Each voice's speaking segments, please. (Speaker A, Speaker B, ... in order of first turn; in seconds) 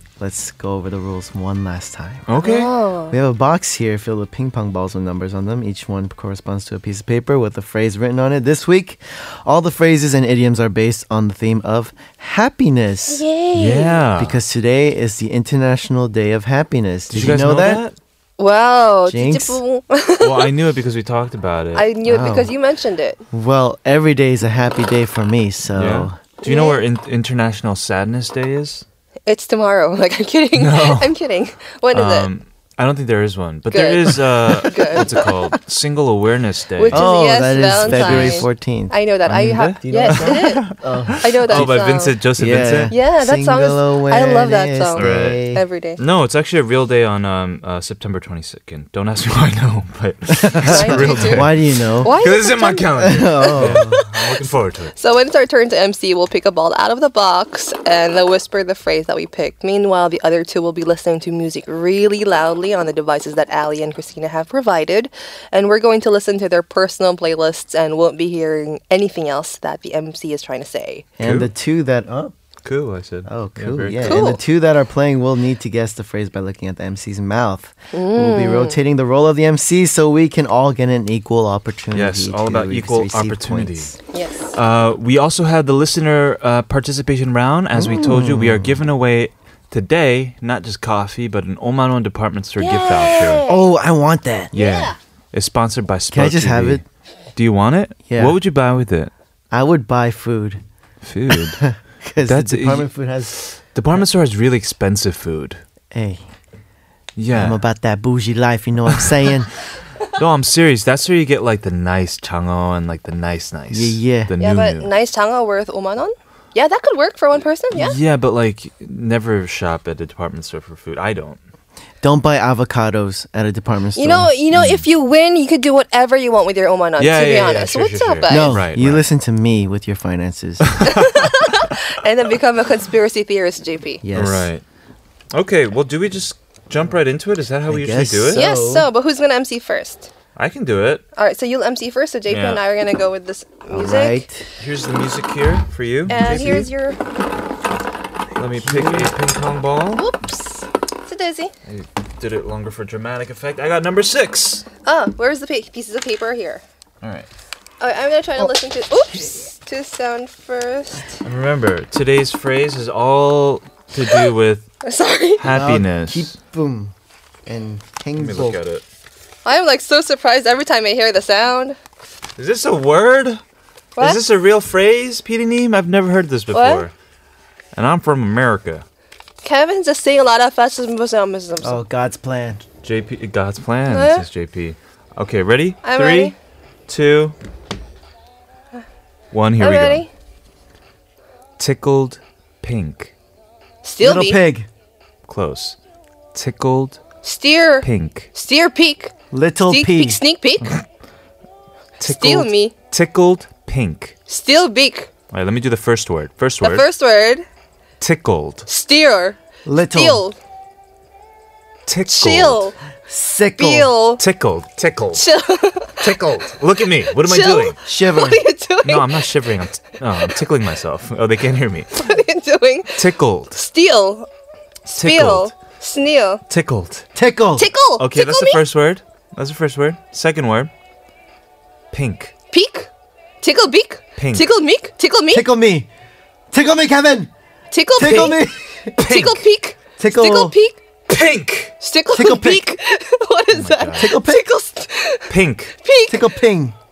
Speaker A: 0.2-2.3, 3.1-13.2, 14.2-17.8, 19.1-19.6, 22.0-22.5, 23.3-26.2, 36.9-38.9, 39.8-41.7, 42.4-45.6, 50.4-52.1, 53.0-54.0, 71.2-72.3, 73.2-84.0, 87.7-88.8, 93.5-94.5, 96.1-96.8, 98.1-98.4, 99.5-100.6, 101.3-103.3, 105.9-106.2, 107.3-109.5, 113.7-114.3, 122.0-124.3, 128.3-130.8, 134.0-134.5, 137.7-138.9, 143.7-144.4, 148.6-149.1, 165.4-166.9, 167.4-168.6, 181.6-182.6, 194.0-194.7, 199.3-200.2, 209.6-210.2, 213.1-213.9, 217.8-218.4, 227.1-227.7, 235.3-235.9, 236.5-237.3, 237.9-238.9, 240.0-240.5, 242.1-242.7, 244.0-244.4, 246.1-246.8
Speaker B: 2.3-2.7, 13.5-14.4, 17.1-18.0, 20.2-21.9, 25.7-28.8, 30.5-31.1, 31.9-37.1, 37.8-38.5, 39.2-40.8, 41.5-42.9, 45.0-45.4, 46.0-54.9, 71.2-71.5, 72.6-74.2, 81.9-84.0, 84.5-93.4, 94.5-96.8, 97.3-99.1, 101.0-101.6, 102.2-105.6, 107.2-107.6, 110.1-114.9, 117.7-121.4, 124.5-124.8, 127.0-129.0, 134.1-134.6, 135.3-138.4, 140.3-141.0, 142.3-142.6, 144.6-146.7, 148.3-150.1, 151.7-154.7, 157.0-157.3, 161.2-164.7, 165.4-166.3, 168.2-168.8, 172.3-173.4, 174.0-176.9, 177.7-178.8, 182.8-186.3, 186.9-187.3, 189.3-190.1, 191.6-193.1, 195.2-195.8, 196.3-197.0, 197.8-198.3, 202.0-204.2, 205.3-206.9, 208.0-208.7, 211.8-212.7, 214.2-215.2, 216.0-217.8, 218.8-222.0, 222.9-223.6, 224.9-225.5, 226.5-227.1, 228.0-230.7, 231.9-232.3, 234.2-234.5, 239.0-239.5, 241.1-241.7, 243.5-244.1, 245.3-245.8
Speaker C: 2.4-3.1, 13.1-14.0, 18.4-20.5, 21.7-23.2, 26.4-26.8, 29.3-32.3, 33.7-35.3, 36.8-40.7, 41.2-42.2, 42.9-46.0, 50.6-51.5, 52.0-53.9, 54.9-71.0, 74.0-74.4, 77.9-78.8, 84.1-84.5, 92.6-93.7, 94.5-94.9, 114.4-118.0, 124.0-128.5, 130.8-134.0, 138.3-140.1, 141.2-144.2, 146.1-147.0, 150.0-151.5, 154.8-156.6, 157.8-161.1, 164.8-165.4, 169.4-171.8, 176.5-176.9, 179.4-181.8, 183.9-184.2, 185.8-186.3, 189.6-190.1, 193.8-194.4, 197.2-199.1, 199.7-200.7, 202.0-202.7, 204.3-205.1, 206.6-207.4, 208.7-209.4, 209.9-210.4, 212.1-212.8, 213.6-214.2, 215.1-216.0, 217.2-219.2, 222.0-224.3, 224.9-226.4, 227.6-228.6, 232.5-232.9, 233.4-235.5, 237.7-238.4, 239.0-240.8, 241.8-246.4